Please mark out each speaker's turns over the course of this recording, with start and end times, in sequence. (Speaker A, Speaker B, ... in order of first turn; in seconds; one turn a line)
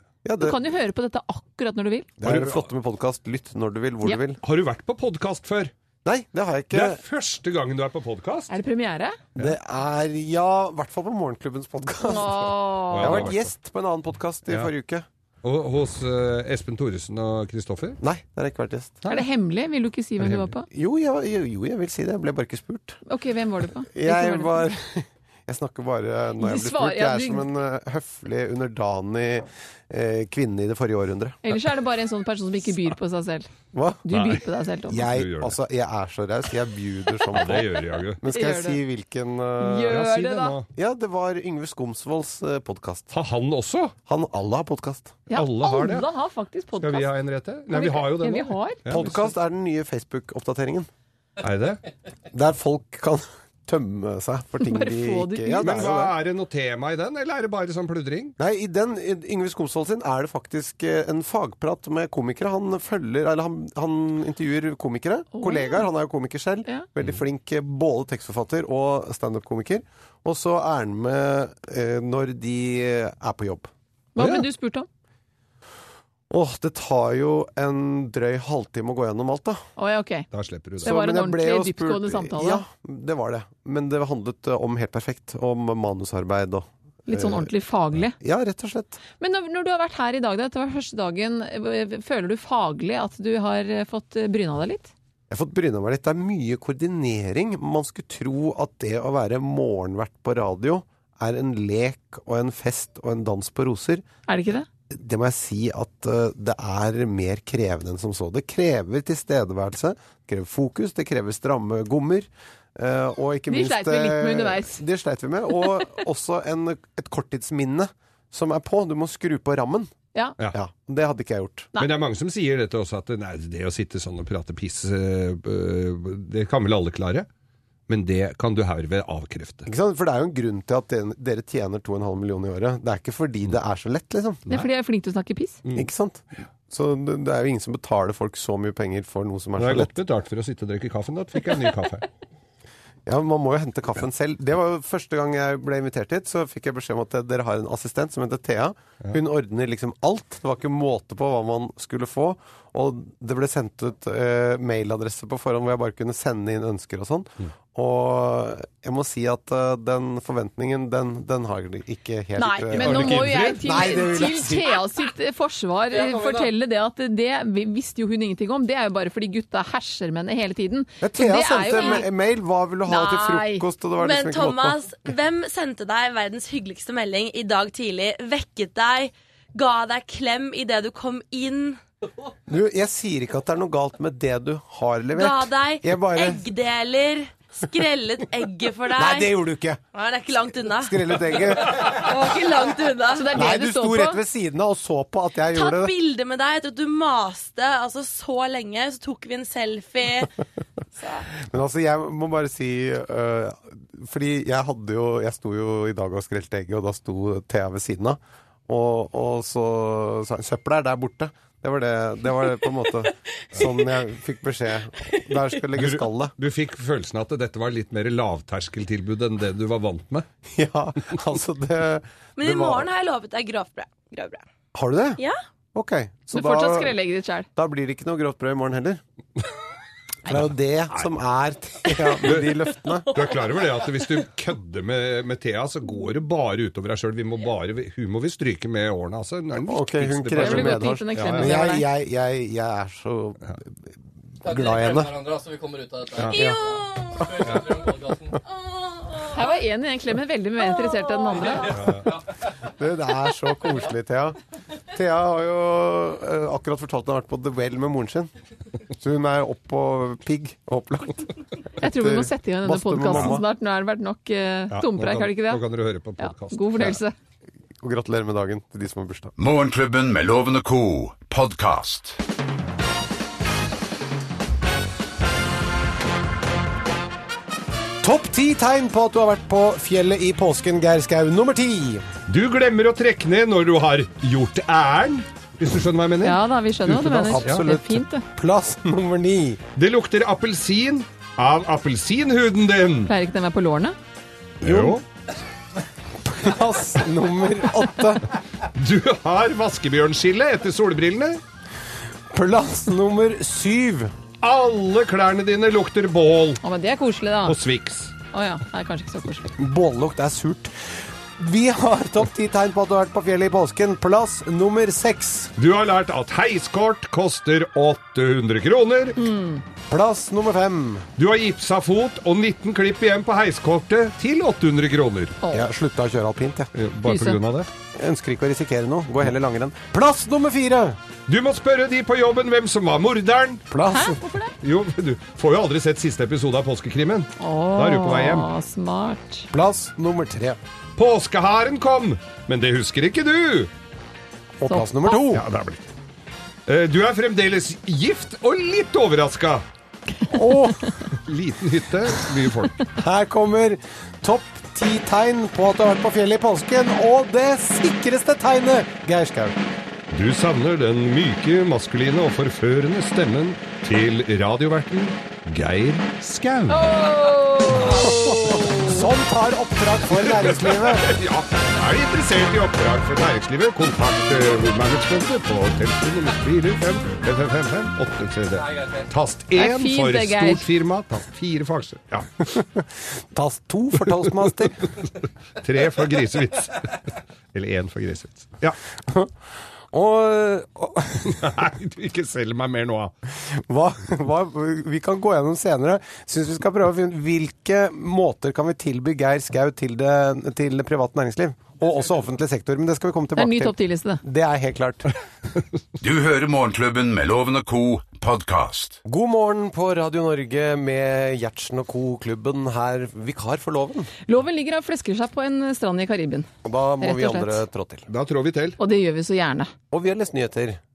Speaker A: 0.2-0.6
Speaker B: 0.4-2.1
Speaker A: 2.2-4.4
Speaker C: 2.2-2.7
Speaker C: 4.4-5.7
Speaker A: 6.0-7.0
Speaker C: 6.7-8.6
Speaker B: 8.5-9.2
Speaker A: 9.4-15.1
Speaker B: 12.0-13.3
Speaker C: 12.9-13.5
Speaker C: 15.4-18.0
Speaker A: 18.0-19.0
Speaker B: 19.1-20.6
Speaker C: 20.2-20.5
Speaker A: 20.7-23.0
Speaker B: 23.1-24.6
Speaker A: 23.9-31.4
Speaker B: 26.4-27.5
Speaker B: 31.4-33.5
Speaker A: 33.7-34.0
Speaker B: 34.0-35.0
Speaker C: 34.1-34.4
Speaker A: 34.9-40.0
Speaker C: 35.0-35.5
Speaker C: 37.3-38.2
Speaker B: 38.3-38.8
Speaker B: 39.6-40.5
Speaker C: 39.8-40.7
Speaker A: 40.7-43.1
Speaker C: 43.1-43.9
Speaker A: 44.1-45.2
Speaker B: 45.3-47.1
Speaker C: 45.3-46.1
Speaker C: 46.8-49.2
Speaker B: 47.7-48.8
Speaker A: 48.9-50.9
Speaker C: 51.4-51.8
Speaker A: 52.3-56.2
Speaker B: 54.6-55.8
Speaker C: 55.6-58.4
Speaker A: 58.4-73.7
Speaker B: 65.3-65.8
Speaker B: 74.2-74.9
Speaker C: 74.2-74.5
Speaker A: 76.3-79.6
Speaker B: 79.8-80.3
Speaker C: 80.3-80.9
Speaker A: 80.8-87.5
Speaker B: 80.8-82.6
Speaker B: 87.1-88.1
Speaker A: 88.2-89.0
Speaker B: 89.2-94.9
Speaker A: 95.3-104.0
Speaker B: 104.3-104.7
Speaker A: 104.9-119.9
Speaker B: 113.5-114.8
Speaker A: 120.5-121.7
Speaker C: 121.8-127.3
Speaker C: 127.9-129.7
Speaker A: 129.7-134.4
Speaker B: 134.5-135.6
Speaker A: 135.8-139.9
Speaker C: 139.6-142.1
Speaker A: 143.1-164.8
Speaker B: 162.4-172.1
Speaker C: 162.8-164.1
Speaker D: 165.9-166.5
Speaker A: 171.0-174.8
Speaker B: 172.9-173.7
Speaker E: 174.0-181.8
Speaker A: 182.5-186.5
Speaker E: 185.1-189.4
Speaker A: 188.9-189.8
Speaker E: 189.9-193.3
Speaker A: 190.7-191.9
Speaker B: 193.1-194.2
Speaker A: 193.3-195.9
Speaker E: 195.5-200.3
Speaker A: 201.4-216.3
Speaker C: 215.8-220.3
Speaker A: 220.5-222.9
Speaker E: 222.4-224.4
Speaker A: 224.7-225.2
Speaker A: 225.7-227.0
Speaker B: 226.3-227.5
Speaker A: 227.6-229.0
Speaker A: 230.2-233.1
Speaker C: 230.3-231.1
Speaker C: 232.2-241.5
Speaker E: 233.0-234.0
Speaker A: 239.7-243.4
Speaker B: 240.4-241.8
Speaker A: 244.4-245.2
Speaker D: 244.4-248.4
Speaker A: 246.3-246.6
Speaker E: 246.7-247.2
Speaker B: 249.3-251.8
Speaker D: 251.4-252.3
Speaker C: 251.8-252.1
Speaker A: 252.7-254.4
Speaker A: 254.9-258.3
Speaker A: 259.0-261.3
Speaker A: 261.8-263.4
Speaker B: 261.8-265.6
Speaker C: 264.7-267.0
Speaker B: 266.2-267.1
Speaker A: 267.8-269.3
Speaker F: 269.4-272.2
Speaker A: 278.0-282.0
Speaker C: 282.3-287.6
Speaker B: 286.2-288.2
Speaker A: 287.3-289.6
Speaker C: 289.8-293.1
Speaker B: 293.1-293.9
Speaker A: 294.6-295.0
Speaker C: 294.6-295.0
Speaker A: 296.2-298.2
Speaker C: 298.8-301.4
Speaker A: 302.3-304.1
Speaker C: 304.4-306.6
Speaker B: 306.6-307.6
Speaker C: 307.4-308.1
Speaker B: 308.3-309.4
Speaker A: 309.5-315.5
Speaker C: 315.6-319.2
Speaker B: 319.2-319.6
Speaker A: 319.9-321.1
Speaker C: 321.2-325.4
Speaker B: 325.4-325.7
Speaker A: 325.5-326.7
Speaker C: 326.8-327.7
Speaker B: 327.0-327.4
Speaker A: 327.9-331.0
Speaker C: 331.3-333.6
Speaker A: 333.7-334.2
Speaker B: 333.9-334.5
Speaker C: 334.6-338.5
Speaker B: 337.4-339.5
Speaker A: 339.5-340.6
Speaker C: 341.0-343.7
Speaker A: 344.6-345.4
Speaker B: 344.6-345.2
Speaker C: 345.3-345.8
Speaker C: 346.7-349.6
Speaker A: 350.3-350.9
Speaker B: 350.3-350.7
Speaker C: 351.2-352.9
Speaker A: 352.9-359.6
Speaker C: 360.1-366.9
Speaker B: 366.7-369.0
Speaker C: 367.8-368.8
Speaker A: 368.8-371.1
Speaker C: 370.1-382.3
Speaker D: 378.6-379.1
Speaker B: 379.6-380.6
Speaker A: 382.5-384.8
Speaker C: 385.6-387.0
Speaker C: 387.5-388.8
Speaker A: 389.0-389.3
Speaker A: 389.9-391.6
Speaker C: 391.2-393.1
Speaker A: 393.4-405.1
Speaker B: 403.4-404.2
Speaker F: 406.0-409.0
Speaker A: 409.0-414.1
Speaker B: 414.2-416.5
Speaker A: 416.6-418.1
Speaker B: 417.0-417.6
Speaker C: 418.1-418.8
Speaker B: 418.8-419.7
Speaker A: 419.9-420.8